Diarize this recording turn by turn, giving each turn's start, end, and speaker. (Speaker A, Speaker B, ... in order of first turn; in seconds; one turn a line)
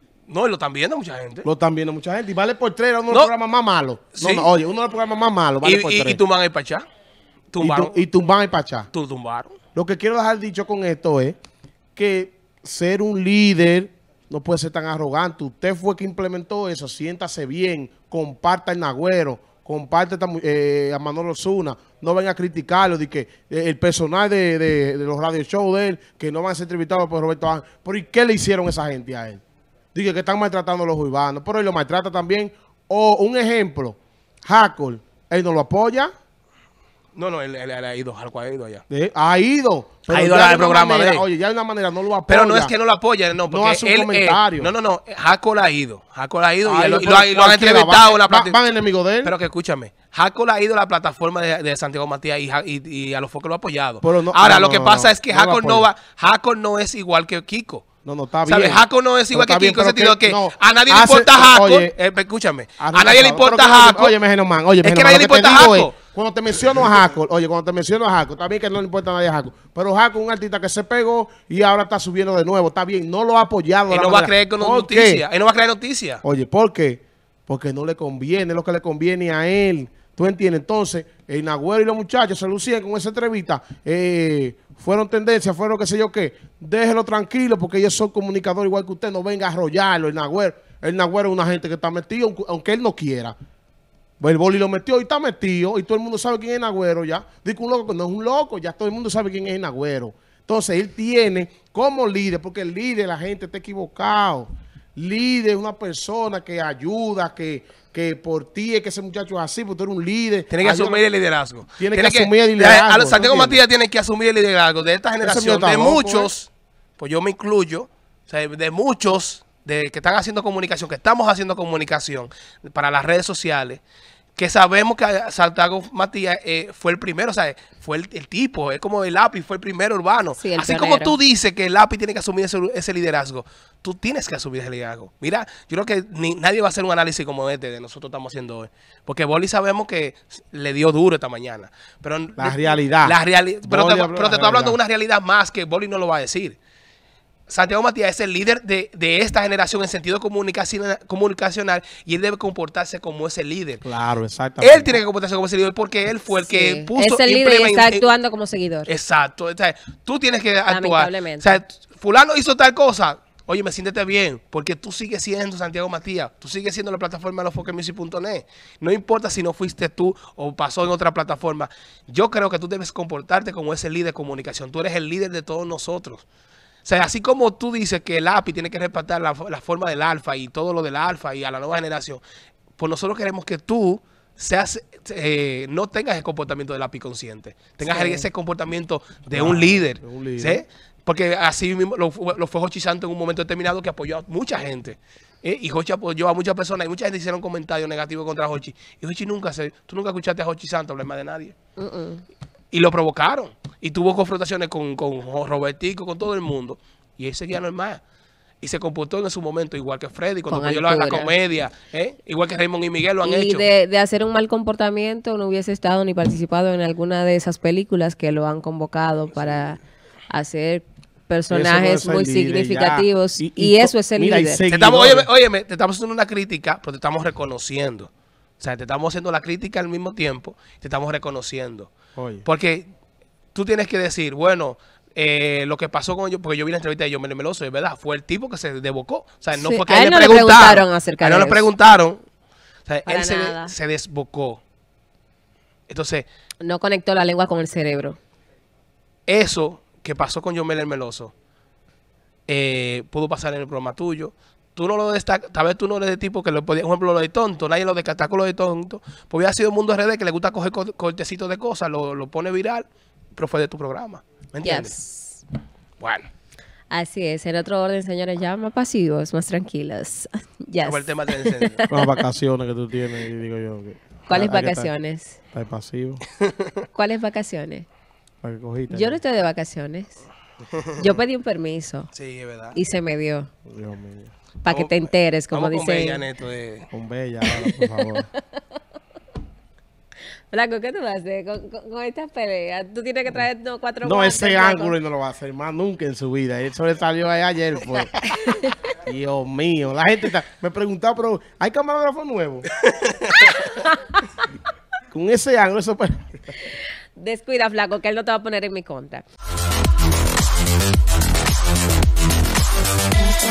Speaker A: 0.3-1.5
Speaker B: 1.4-6.2
Speaker A: 4.1-4.5
Speaker A: 5.6-6.8
Speaker A: 7.5-7.9
Speaker B: 7.6-8.9
Speaker A: 8.9-9.6
Speaker B: 9.7-11.4
Speaker B: 11.9-29.4
Speaker B: 29.9-36.1
Speaker A: 37.1-38.8
Speaker B: 38.9-42.7
Speaker A: 40.1-41.2
Speaker A: 42.3-48.6
Speaker B: 43.5-44.7
Speaker B: 46.6-49.3
Speaker A: 49.2-57.9
Speaker B: 54.0-55.9
Speaker B: 58.0-61.9
Speaker A: 58.4-64.2
Speaker B: 62.8-75.2
Speaker A: 64.8-65.9
Speaker A: 73.9-76.2
Speaker B: 76.2-93.3
Speaker B: 94.2-111.0
Speaker A: 110.5-123.8
Speaker B: 111.8-113.6
Speaker B: 115.2-116.3
Speaker A: 124.4-146.6
Speaker C: 130.3-131.2
Speaker B: 142.4-144.8
Speaker A: 147.5-153.8
Speaker B: 153.8-155.0
Speaker A: 154.6-158.1
Speaker C: 156.4-158.9
Speaker A: 158.9-176.2
Speaker C: 160.7-161.6
Speaker A: 176.8-182.2
Speaker A: 182.8-201.5
Speaker B: 187.8-188.2
Speaker B: 189.3-190.6
Speaker C: 201.8-202.2
Speaker A: 202.7-208.0
Speaker A: 208.6-213.7
Speaker C: 210.5-211.3
Speaker C: 213.2-224.6
Speaker B: 221.5-225.3
Speaker A: 224.7-231.9
Speaker B: 232.2-232.4
Speaker A: 232.4-232.9
Speaker A: 233.5-242.2
Speaker C: 239.5-241.7
Speaker A: 242.9-244.6
Speaker C: 243.1-243.7
Speaker A: 245.9-246.3
Speaker C: 246.6-248.2
Speaker A: 249.3-251.3
Speaker A: 252.5-264.9
Speaker C: 264.6-265.4
Speaker A: 266.0-266.3
Speaker C: 266.9-272.0
Speaker A: 270.8-271.9
Speaker B: 271.9-274.9
Speaker C: 274.3-275.4
Speaker B: 275.5-276.2
Speaker C: 276.9-277.9
Speaker B: 278.4-279.2
Speaker C: 278.9-280.2
Speaker A: 280.8-281.1
Speaker C: 281.0-282.1
Speaker A: 282.1-282.8
Speaker C: 282.7-283.5
Speaker B: 283.6-284.3
Speaker C: 284.6-286.2
Speaker A: 284.7-285.0
Speaker A: 285.5-286.9
Speaker B: 286.9-288.3
Speaker C: 287.4-288.6
Speaker C: 290.5-295.0
Speaker B: 294.0-298.2
Speaker B: 298.9-302.7
Speaker A: 302.8-303.7
Speaker C: 303.6-304.0
Speaker B: 305.1-306.4
Speaker C: 307.1-309.2